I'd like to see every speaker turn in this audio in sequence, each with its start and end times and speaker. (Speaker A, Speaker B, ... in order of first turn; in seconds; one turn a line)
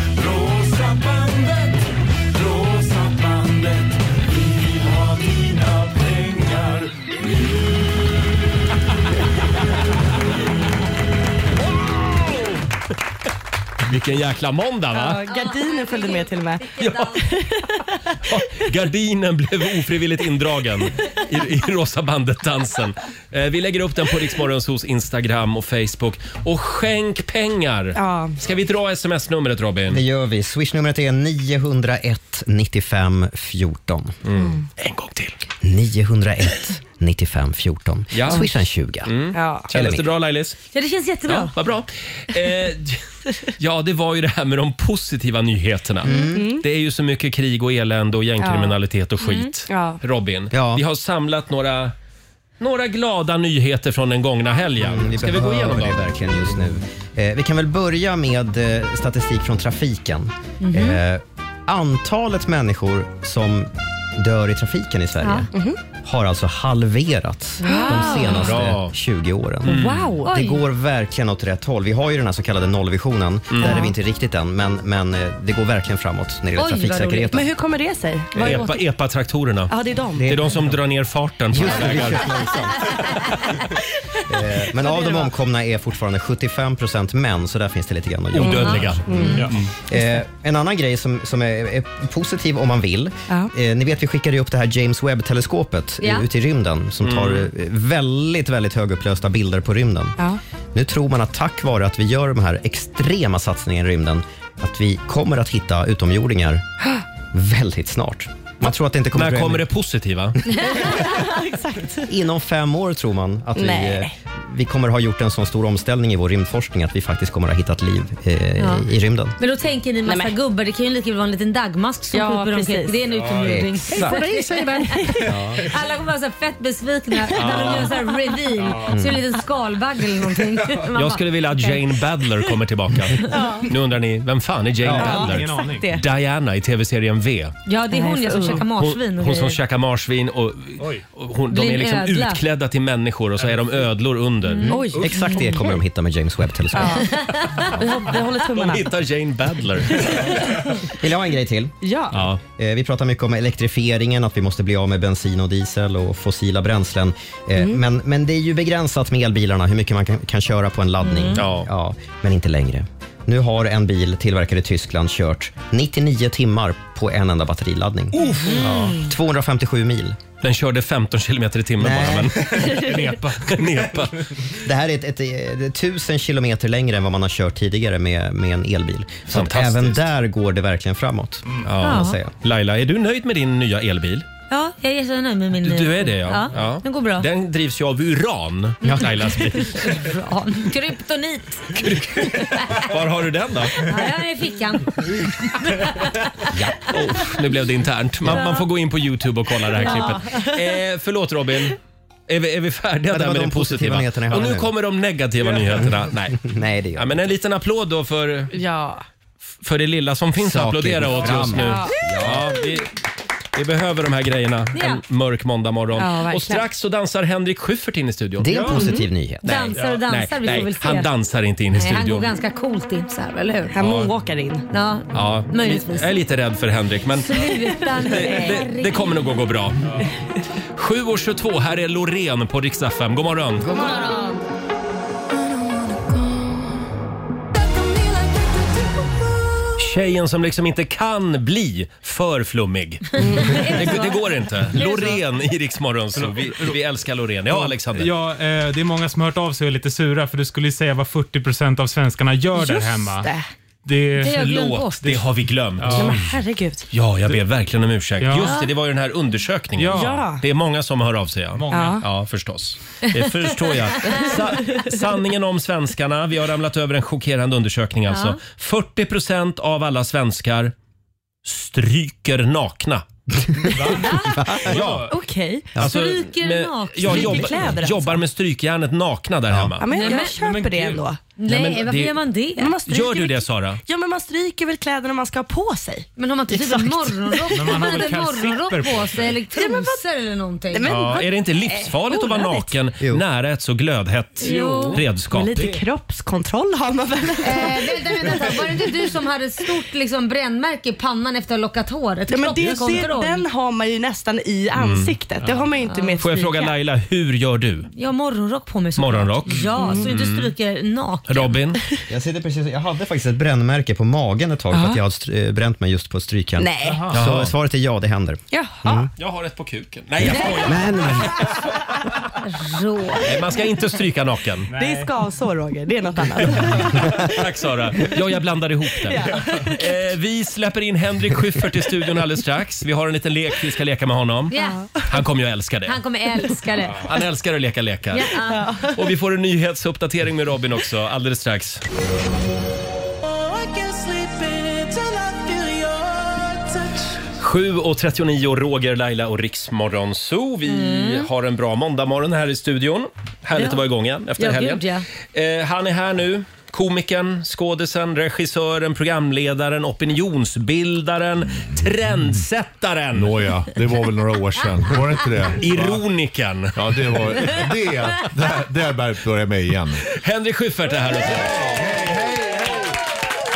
Speaker A: 0.2-1.7
Speaker A: 2.3-3.8
Speaker A: 4.4-6.8
Speaker B: 13.9-15.2
Speaker C: 14.9-16.7
Speaker D: 15.2-17.3
Speaker B: 16.8-17.1
Speaker C: 17.2-18.0
Speaker B: 18.2-30.0
Speaker C: 27.9-28.4
Speaker E: 29.9-34.1
Speaker B: 34.2-35.4
Speaker C: 34.4-34.6
Speaker E: 35.6-39.1
Speaker B: 38.1-38.5
Speaker B: 39.0-40.6
Speaker C: 39.3-39.7
Speaker E: 39.7-40.0
Speaker D: 40.7-41.5
Speaker B: 41.3-43.0
Speaker B: 43.6-51.9
Speaker E: 46.0-46.5
Speaker C: 46.1-46.6
Speaker C: 48.4-48.8
Speaker D: 49.2-49.5
Speaker C: 49.7-50.0
Speaker E: 50.5-50.8
Speaker B: 52.6-56.0
Speaker E: 54.8-65.5
Speaker D: 60.6-61.0
Speaker D: 65.2-65.5
Speaker C: 65.5-65.8
Speaker E: 66.0-77.5
Speaker D: 67.6-68.5
Speaker C: 67.6-68.4
Speaker B: 68.3-68.9
Speaker B: 69.6-70.1
Speaker C: 69.6-70.3
Speaker D: 70.2-70.6
Speaker B: 73.5-73.8
Speaker D: 76.5-77.4
Speaker C: 77.3-78.9
Speaker B: 78.3-82.4
Speaker E: 78.4-78.6
Speaker C: 79.7-80.4
Speaker E: 80.2-80.7
Speaker E: 81.5-83.3
Speaker E: 84.2-100.2
Speaker B: 88.3-89.7
Speaker D: 88.5-89.4
Speaker C: 88.5-89.5
Speaker B: 97.0-97.5
Speaker E: 100.7-106.6
Speaker E: 107.3-109.7
Speaker B: 109.1-110.4
Speaker C: 110.7-112.1
Speaker E: 112.0-119.4
Speaker C: 113.5-114.1
Speaker D: 118.6-124.6
Speaker C: 120.0-120.3
Speaker C: 122.1-123.0
Speaker F: 123.1-123.6
Speaker E: 123.4-123.8
Speaker C: 123.9-125.4
Speaker E: 125.2-125.6
Speaker D: 125.6-131.8
Speaker C: 127.2-128.2
Speaker B: 127.4-127.9
Speaker E: 128.9-129.2
Speaker B: 130.9-137.6
Speaker C: 133.3-133.7
Speaker F: 134.8-135.9
Speaker C: 134.9-136.0
Speaker D: 137.7-139.6
Speaker C: 137.9-138.7
Speaker B: 138.7-144.7
Speaker D: 141.5-142.4
Speaker D: 144.5-145.4
Speaker C: 144.7-145.7
Speaker E: 144.7-147.1
Speaker F: 144.9-145.3
Speaker C: 146.7-147.1
Speaker D: 146.9-147.7
Speaker C: 147.7-148.9
Speaker B: 148.4-150.2
Speaker E: 151.0-151.8
Speaker C: 151.8-152.3
Speaker B: 152.1-152.4
Speaker E: 152.6-170.2
Speaker C: 157.6-157.8
Speaker D: 161.0-161.4
Speaker B: 161.3-161.7
Speaker B: 168.1-168.8
Speaker D: 168.5-168.7
Speaker B: 170.4-174.3
Speaker E: 171.8-172.8
Speaker F: 172.7-173.8
Speaker E: 174.6-182.3
Speaker B: 179.3-180.1
Speaker B: 181.6-184.2
Speaker D: 181.8-182.2
Speaker D: 184.5-187.3
Speaker B: 185.6-190.0
Speaker E: 188.8-189.3
Speaker D: 189.5-192.9
Speaker B: 191.7-193.8
Speaker D: 193.8-196.5
Speaker E: 196.5-196.9
Speaker B: 196.9-208.5
Speaker D: 198.2-198.7
Speaker D: 199.8-200.2
Speaker C: 199.8-200.6
Speaker E: 203.1-204.7
Speaker E: 206.4-207.2
Speaker C: 208.5-209.0
Speaker B: 209.6-212.9
Speaker E: 210.4-212.6
Speaker C: 211.5-212.0
Speaker B: 213.5-218.5
Speaker D: 214.7-215.0
Speaker C: 215.9-216.6
Speaker E: 218.4-219.4
Speaker F: 218.5-219.0
Speaker C: 218.7-219.1
Speaker D: 219.4-221.1
Speaker B: 219.4-222.3
Speaker D: 221.7-223.7
Speaker C: 223.7-224.7
Speaker B: 223.8-224.1
Speaker D: 224.7-226.2
Speaker B: 225.1-230.0
Speaker D: 227.2-229.2
Speaker C: 227.7-228.6
Speaker B: 230.8-233.8
Speaker C: 233.7-234.2
Speaker D: 233.7-234.3
Speaker C: 235.9-236.5
Speaker B: 239.8-248.1
Speaker C: 243.2-244.0
Speaker D: 243.2-245.2
Speaker F: 246.1-246.8
Speaker F: 247.9-253.3
Speaker C: 252.5-253.5
Speaker F: 253.8-254.4
Speaker D: 254.2-255.2
Speaker B: 254.2-256.2
Speaker F: 255.0-256.3
Speaker C: 255.9-256.9
Speaker B: 256.9-270.7
Speaker F: 258.2-258.6
Speaker D: 258.4-258.7
Speaker F: 259.8-260.3
Speaker C: 259.9-260.4
Speaker F: 261.6-262.0
Speaker C: 261.7-262.1
Speaker C: 264.0-265.0
Speaker D: 268.1-268.4
Speaker B: 271.4-273.1
Speaker F: 273.6-274.1
Speaker D: 273.9-274.6
Speaker E: 274.4-274.7
Speaker F: 274.6-275.1
Speaker B: 274.7-275.1
Speaker C: 275.0-275.8
Speaker B: 275.8-279.9
Speaker D: 275.8-277.4
Speaker C: 277.1-278.2
Speaker E: 279.5-279.7
Speaker C: 279.8-281.2
Speaker D: 279.9-280.4
Speaker F: 280.0-281.0
Speaker D: 281.4-282.7
Speaker B: 281.4-282.1
Speaker C: 282.6-287.8
Speaker B: 282.9-283.8
Speaker D: 286.2-290.9
Speaker F: 287.5-289.4
Speaker C: 289.5-290.0
Speaker C: 290.7-292.7
Speaker B: 290.9-295.7
Speaker D: 294.4-295.0
Speaker C: 294.4-298.7
Speaker F: 294.4-295.0
Speaker D: 297.4-303.4
Speaker C: 302.3-306.7
Speaker B: 302.6-303.1
Speaker B: 304.8-305.1
Speaker D: 305.8-306.2
Speaker B: 306.2-307.9
Speaker D: 307.9-311.5
Speaker B: 308.9-310.5
Speaker C: 309.8-310.1
Speaker B: 311.3-311.8
Speaker E: 312.1-319.1
Speaker C: 314.7-315.0
Speaker C: 316.6-317.1
Speaker F: 316.8-317.3
Speaker B: 317.1-317.5
Speaker C: 318.5-319.1
Speaker B: 319.2-321.3
Speaker E: 320.2-321.3
Speaker D: 322.4-323.3
Speaker B: 323.2-324.7
Speaker F: 324.7-325.1
Speaker C: 324.7-327.4
Speaker F: 326.6-326.9
Speaker B: 326.8-334.5
Speaker C: 329.0-329.8
Speaker D: 334.5-334.9
Speaker C: 334.5-335.1
Speaker B: 335.0-336.0
Speaker D: 335.9-337.1
Speaker B: 337.0-338.3
Speaker D: 338.1-338.8
Speaker C: 338.5-339.1
Speaker B: 338.9-341.8
Speaker C: 343.5-346.2
Speaker B: 347.4-363.4
Speaker D: 350.7-351.3
Speaker D: 353.6-353.9
Speaker D: 354.4-355.0
Speaker G: 363.1-366.0
Speaker B: 365.6-367.5
Speaker G: 366.7-370.1
Speaker B: 370.1-372.0
Speaker G: 371.3-373.0